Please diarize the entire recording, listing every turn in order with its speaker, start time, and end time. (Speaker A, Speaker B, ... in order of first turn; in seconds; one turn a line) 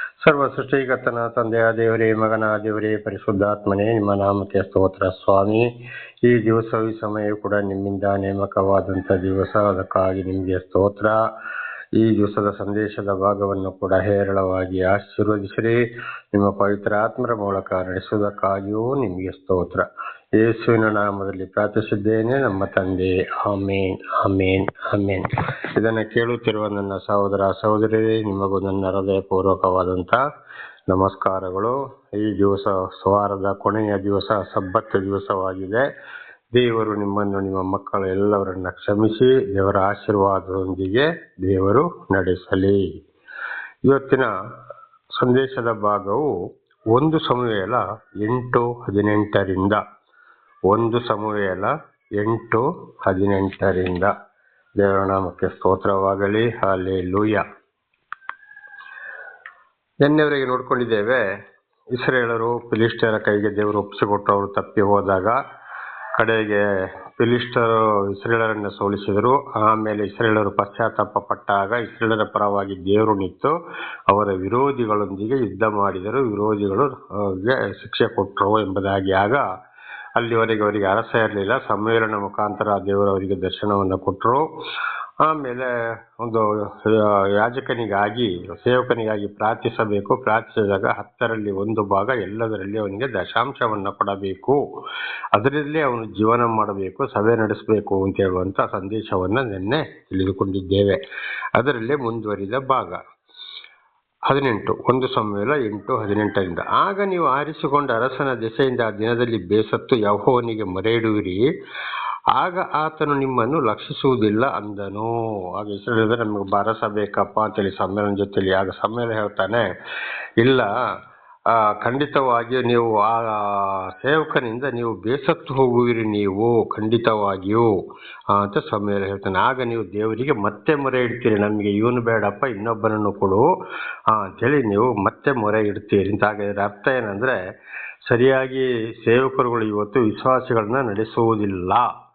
Speaker A: 0.2-5.7
Speaker A: 6.2-11.2
Speaker A: 12.0-15.8
Speaker A: 16.3-19.9
Speaker A: 20.4-30.2
Speaker A: 30.9-35.9
Speaker A: 36.5-42.8
Speaker A: 43.9-44.3
Speaker A: 45.2-46.3
Speaker A: 46.9-49.8
Speaker A: 50.7-54.1
Speaker A: 54.8-57.4
Speaker A: 60.0-61.2
Speaker A: 62.0-65.4
Speaker A: 66.2-66.6
Speaker A: 67.2-73.5
Speaker A: 74.1-79.5
Speaker A: 80.2-84.5
Speaker A: 85.2-94.6
Speaker A: 95.3-101.0
Speaker A: 101.6-103.0
Speaker A: 104.3-111.4
Speaker A: 112.4-119.6
Speaker A: 120.4-120.7
Speaker A: 121.5-127.7
Speaker A: 128.3-133.5
Speaker A: 134.1-137.3
Speaker A: 138.1-141.9